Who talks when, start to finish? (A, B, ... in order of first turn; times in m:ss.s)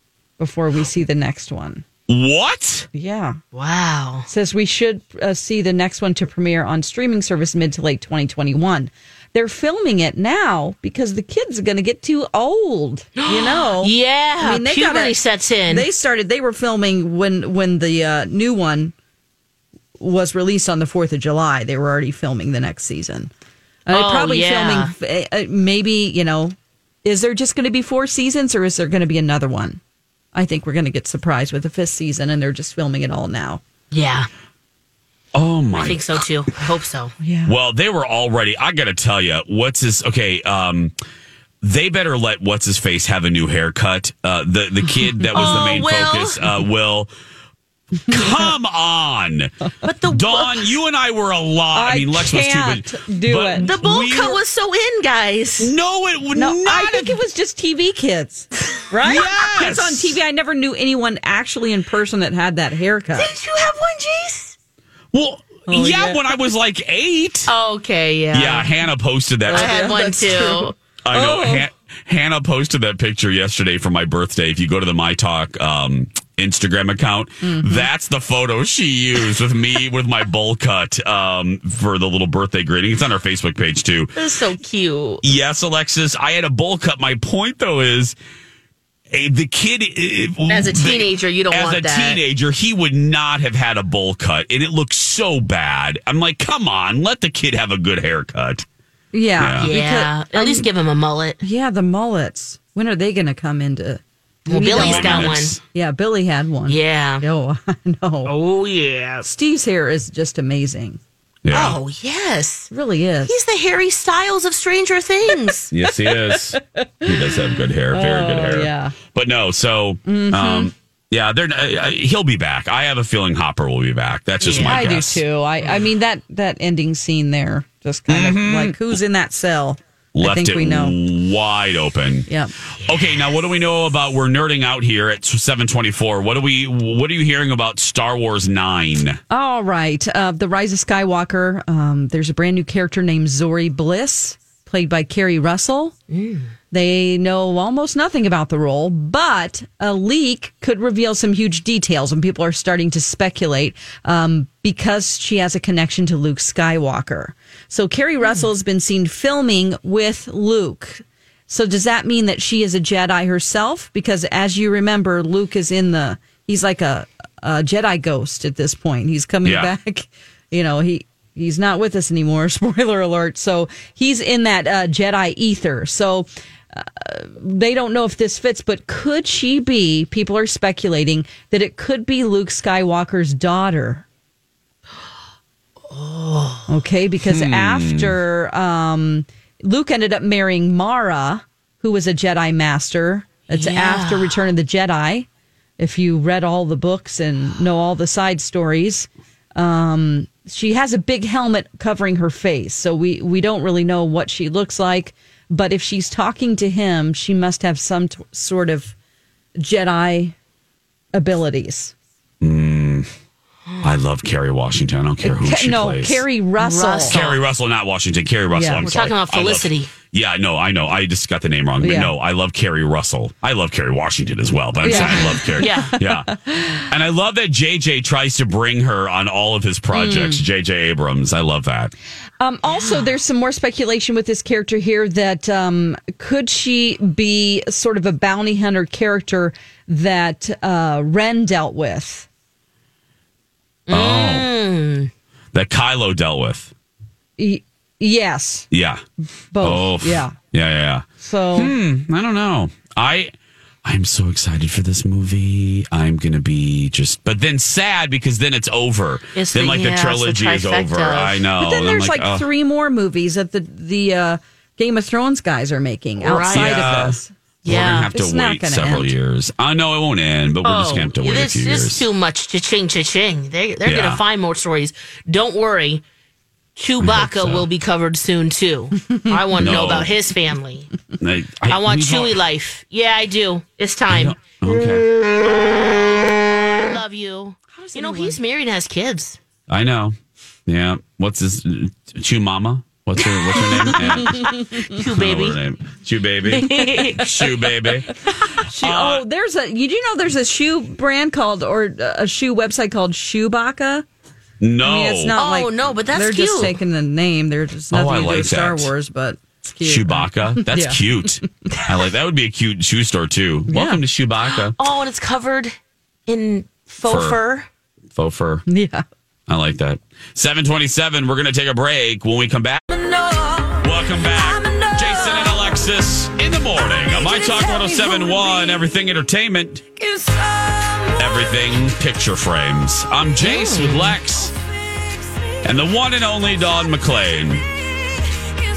0:00.4-0:01.8 A
0:02.1-0:02.9 B
0:02.9-0:03.4 A
0:03.5-0:04.3 C
0:04.3-0:18.9 A
0:13.2-0:15.9 C
0:20.0-0:23.3 A
0:23.9-0:29.8 A
0:23.9-0:24.9 C
0:30.3-0:33.6 A
0:33.9-0:34.3 C
0:35.3-0:36.2 B
0:35.7-0:37.1 C
0:37.2-0:37.5 A
0:37.5-0:41.0 B
0:41.6-0:47.1 B
0:45.3-0:46.4 C
0:45.4-0:45.7 A
0:48.1-0:49.5 B
0:49.8-0:50.7 C
0:50.0-0:54.4 B
0:51.7-0:53.7 A
0:53.6-0:55.7 C
0:55.6-0:57.2 B
0:56.4-1:03.3 A
0:59.0-1:00.2 B
1:03.2-1:04.5 C
1:05.1-1:07.5 B
1:05.7-1:06.2 A
1:07.5-1:08.7 C
1:08.3-1:09.9 B
1:09.5-1:11.7 A
1:09.5-1:10.8 C
1:11.0-1:24.2 B
1:17.4-1:17.9 A
1:24.2-1:25.2 C
1:25.2-1:28.2 B
1:29.1-1:38.6 B
1:30.5-1:32.2 C
1:39.1-1:40.7 A
1:39.4-1:39.7 B
1:39.6-1:41.4 C
1:41.4-1:48.3 A
1:44.5-1:45.6 C
1:44.6-1:45.6 B
1:46.7-1:47.2 C
1:48.2-1:49.3 C
1:49.2-1:51.0 A
1:51.4-1:51.8 B
1:51.5-1:52.7 C
1:52.7-1:53.3 A
1:53.2-1:55.7 C
1:55.7-2:05.2 B
1:56.0-1:57.3 A
1:57.9-1:59.0 A
2:00.0-2:00.7 A
2:04.4-2:04.8 C
2:04.6-2:11.0 A
2:08.1-2:08.8 B
2:10.2-2:12.3 B
2:12.3-2:12.5 A
2:12.8-2:19.2 B
2:19.3-2:26.0 A
2:26.1-2:26.5 C
2:26.7-3:04.0 A
2:38.2-2:38.5 C
2:49.4-2:49.7 B
3:05.9-3:06.7 C
3:06.7-3:15.3 A
3:07.2-3:08.2 B
3:13.5-3:14.4 C
3:15.8-3:28.9 A
3:29.6-3:30.4 A
3:31.1-3:31.9 A
3:32.4-3:33.1 B
3:33.8-3:36.2 B
3:35.2-3:37.2 A
3:36.6-3:37.4 C
3:37.0-3:46.4 B
3:38.5-3:38.9 A
3:38.8-3:39.9 C
3:41.8-3:42.1 A
3:44.8-3:46.9 A
3:44.8-3:46.0 C
3:46.9-3:51.9 B
3:49.9-3:50.4 A
3:52.4-4:02.3 A
3:52.7-3:53.0 C
4:03.9-4:05.1 C
4:03.9-4:04.5 B
4:05.5-4:06.7 B
4:07.4-4:08.7 A
4:08.7-4:09.0 B
4:09.5-4:10.4 A
4:09.6-4:22.5 B
4:11.2-4:11.7 A
4:19.4-4:21.4 C
4:21.6-4:27.3 A
4:26.2-4:27.0 C
4:26.4-4:32.0 B
4:27.6-4:28.1 C
4:28.1-4:29.1 A
4:30.6-4:36.0 C
4:33.8-4:34.2 B
4:36.8-4:40.9 C
4:37.0-4:37.7 B
4:39.6-4:40.1 B
4:41.2-4:42.4 B
4:41.7-4:44.4 C
4:44.1-4:45.1 B
4:46.5-4:49.4 C
4:47.8-4:48.4 A
4:49.7-4:50.2 B
4:50.7-4:58.1 B
4:53.2-4:54.0 C
4:54.8-4:55.6 C
4:56.4-4:57.4 C
4:58.6-5:04.0 A
4:58.8-4:59.2 B
5:04.6-5:05.4 B
5:04.8-5:11.0 A
5:05.3-5:06.8 C
5:07.9-5:08.9 B
5:09.8-5:14.8 B
5:13.7-5:14.0 A
5:14.5-5:15.8 C
5:16.3-5:17.7 C
5:17.0-5:17.4 B
5:18.1-5:18.6 B
5:18.7-5:19.0 A
5:19.5-5:22.8 B
5:23.2-5:23.7 A
5:23.8-5:29.8 B
5:27.2-5:28.8 A
5:30.1-5:31.1 A
5:31.2-5:34.5 B
5:33.4-5:34.2 C
5:35.6-5:37.7 B